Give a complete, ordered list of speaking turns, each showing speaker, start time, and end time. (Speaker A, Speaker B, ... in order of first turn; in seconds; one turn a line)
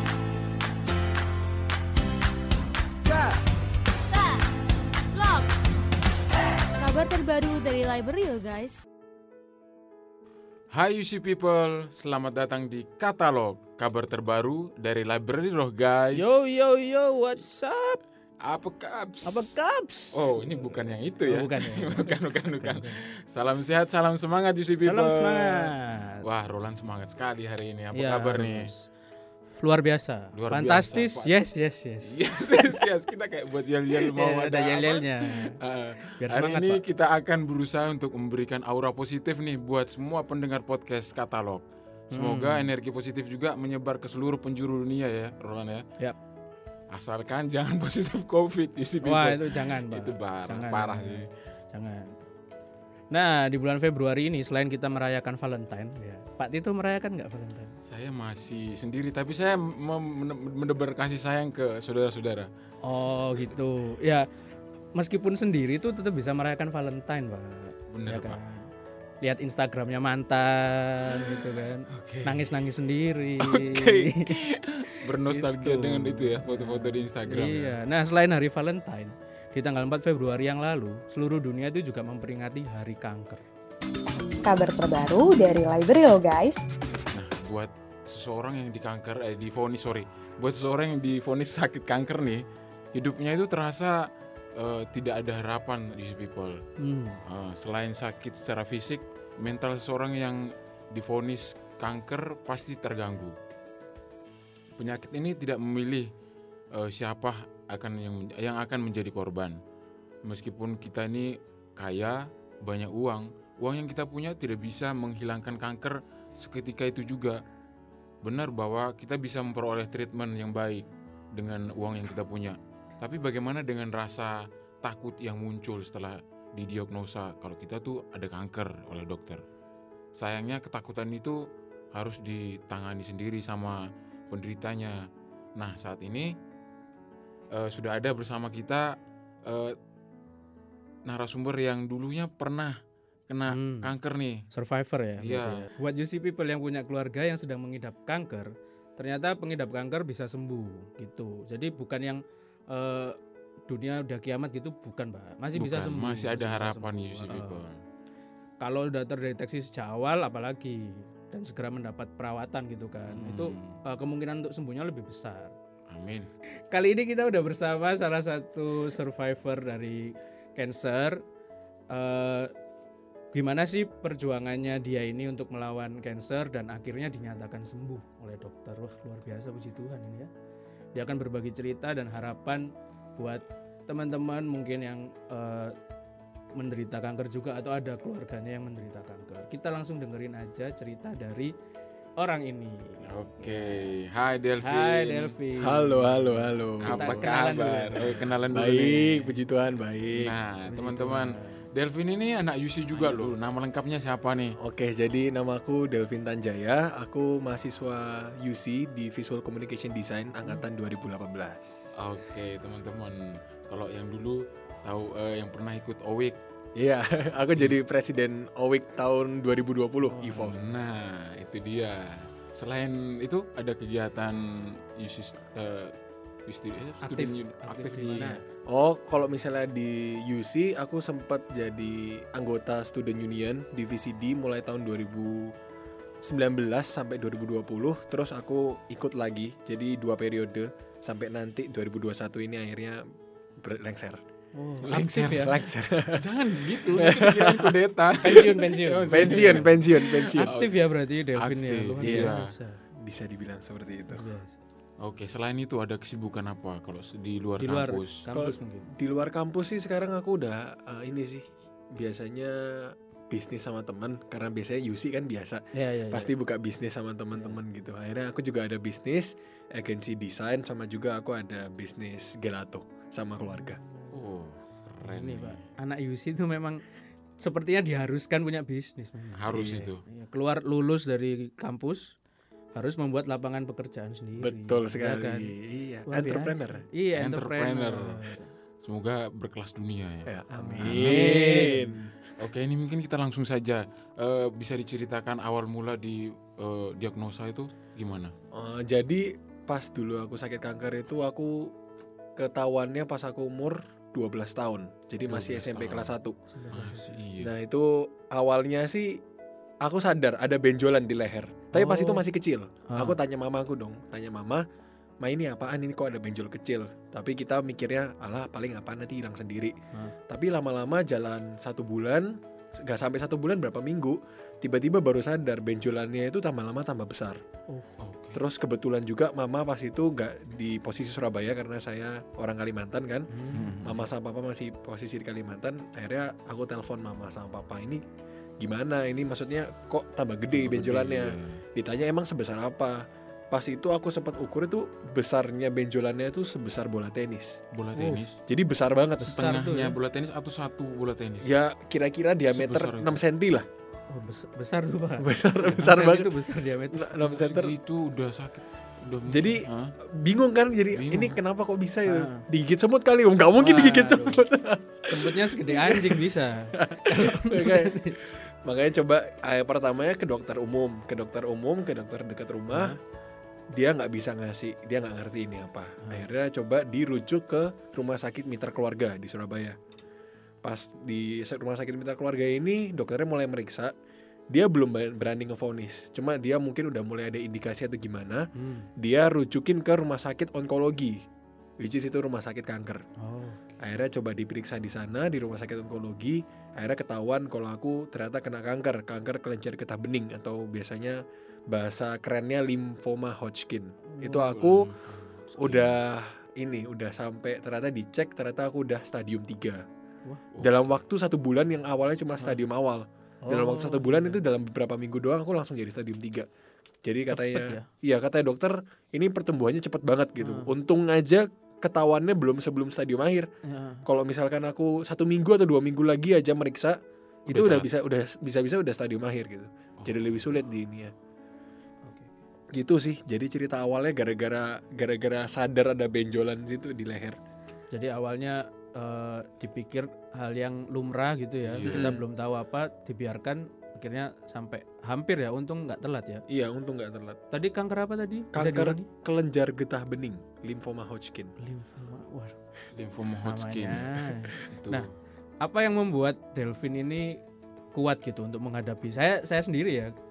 Speaker A: 4.1-4.4
Speaker A: 5.1-5.5
Speaker A: 6.8-8.8
Speaker B: 10.7-16.4
Speaker C: 16.1-18.0
Speaker B: 18.4-19.6
Speaker C: 19.2-20.6
Speaker B: 20.1-25.7
Speaker C: 21.2-22.9
Speaker C: 24.8-26.2
Speaker B: 26.2-28.7
Speaker C: 27.9-28.9
Speaker C: 29.5-32.9
Speaker B: 30.3-31.3
Speaker B: 32.0-45.8
Speaker C: 34.0-35.6
Speaker C: 36.2-36.8
Speaker C: 42.1-42.7
Speaker B: 46.9-51.3
Speaker C: 49.0-52.1
Speaker C: 53.1-57.8
Speaker B: 57.9-62.5
Speaker C: 62.8-64.3
Speaker C: 64.9-68.7
Speaker B: 67.9-68.4
Speaker C: 69.2-74.4
Speaker B: 71.1-72.5
Speaker B: 73.4-77.8
Speaker C: 74.9-83.4
Speaker D: 84.4-86.6
Speaker B: 87.1-92.4
Speaker B: 92.9-96.6
Speaker C: 96.8-97.2
Speaker B: 97.2-103.3
Speaker B: 104.8-106.1
Speaker B: 106.7-109.6
Speaker B: 110.2-117.4
Speaker B: 118.2-129.4
Speaker B: 130.2-135.1
Speaker B: 135.6-136.3
Speaker B: 137.5-139.8
Speaker B: 141.0-142.8
Speaker B: 143.3-144.4
Speaker C: 143.5-143.9
Speaker C: 144.5-153.2
Speaker B: 145.2-145.6
Speaker C: 153.7-157.6
Speaker B: 155.6-157.8
Speaker C: 158.6-165.5
Speaker B: 163.1-163.8
Speaker B: 165.9-166.3
Speaker C: 166.7-171.2
Speaker C: 171.9-172.5
Speaker C: 173.3-180.3
Speaker C: 180.9-185.7
Speaker C: 186.5-191.5
Speaker C: 192.2-193.9
Speaker B: 193.0-195.3
Speaker C: 194.6-198.3
Speaker E: 195.6-200.3
Speaker B: 196.8-199.3
Speaker B: 200.1-204.6
Speaker C: 200.7-201.7
Speaker C: 202.9-203.3
Speaker E: 204.6-211.9
Speaker B: 211.9-216.4
Speaker E: 216.8-220.5
Speaker B: 220.2-225.9
Speaker B: 226.5-228.3
Speaker C: 227.0-228.4
Speaker E: 228.6-235.5
Speaker E: 236.2-243.0
Speaker E: 243.6-244.2
Speaker C: 244.5-245.5
Speaker B: 244.9-245.6
Speaker E: 245.0-246.3
Speaker B: 246.1-250.7
Speaker E: 246.9-247.8
Speaker C: 248.2-249.7
Speaker E: 249.1-250.5
Speaker C: 250.3-252.8
Speaker B: 251.3-252.5
Speaker E: 252.0-252.3
Speaker E: 252.9-254.2
Speaker C: 254.1-254.6
Speaker B: 255.0-258.2
Speaker C: 257.6-258.9
Speaker E: 258.3-273.8
Speaker C: 265.7-266.3
Speaker C: 273.4-274.1
Speaker B: 274.1-275.6
Speaker C: 275.0-276.8
Speaker C: 277.4-282.1
Speaker B: 279.4-280.0
Speaker E: 279.5-279.9
Speaker C: 282.7-285.5
Speaker E: 284.4-286.8
Speaker C: 286.1-288.5
Speaker B: 287.1-288.2
Speaker B: 288.8-291.7
Speaker E: 290.2-292.1
Speaker C: 290.5-292.0
Speaker B: 292.4-298.3
Speaker E: 298.5-301.7
Speaker E: 302.4-306.4
Speaker B: 305.3-306.1
Speaker C: 306.5-307.1
Speaker B: 306.7-307.5
Speaker E: 307.4-309.2
Speaker E: 309.8-314.6
Speaker C: 311.7-312.3
Speaker C: 312.9-313.2
Speaker E: 315.2-319.7
Speaker E: 320.3-327.4
Speaker B: 328.0-328.4
Speaker E: 328.3-333.3
Speaker C: 333.3-333.7
Speaker B: 333.5-334.0
Speaker E: 333.8-338.0
Speaker E: 338.6-347.6
Speaker B: 340.5-341.6
Speaker B: 347.7-348.4
Speaker C: 347.9-348.2
Speaker E: 348.5-349.5
Speaker C: 349.2-349.9
Speaker B: 349.3-351.5
Speaker E: 351.4-353.6
Speaker B: 352.5-353.2
Speaker C: 354.1-357.3
Speaker E: 355.2-356.3
Speaker E: 356.9-357.7
Speaker B: 357.2-359.9
Speaker E: 359.3-373.0
Speaker B: 360.9-361.4
Speaker C: 362.0-362.4
Speaker C: 363.6-364.5
Speaker C: 365.0-368.2
Speaker C: 372.7-373.0
Speaker E: 373.7-379.8
Speaker C: 376.0-376.3
Speaker E: 380.6-383.9
Speaker E: 384.5-391.2
Speaker C: 388.5-388.9
Speaker E: 391.8-393.0
Speaker C: 393.2-393.7
Speaker E: 393.8-404.9
Speaker C: 404.1-404.5
Speaker B: 404.4-405.9
Speaker E: 405.6-409.8
Speaker B: 410.5-410.9
Speaker E: 410.6-416.5
Speaker C: 412.4-412.7
Speaker C: 413.4-414.4
Speaker E: 417.0-423.5
Speaker C: 417.3-417.9
Speaker C: 420.4-420.7
Speaker C: 423.6-424.1
Speaker E: 424.0-431.1
Speaker B: 427.5-427.9
Speaker B: 430.0-430.4
Speaker C: 432.0-432.4
Speaker E: 432.7-437.4
Speaker C: 437.9-446.4
Speaker B: 441.6-442.1
Speaker E: 441.9-442.2
Speaker E: 446.5-447.4
Speaker C: 447.5-449.1
Speaker E: 448.5-451.5
Speaker C: 451.6-452.6
Speaker B: 452.9-455.0
Speaker C: 453.4-455.1
Speaker C: 455.6-457.4
Speaker C: 457.9-460.1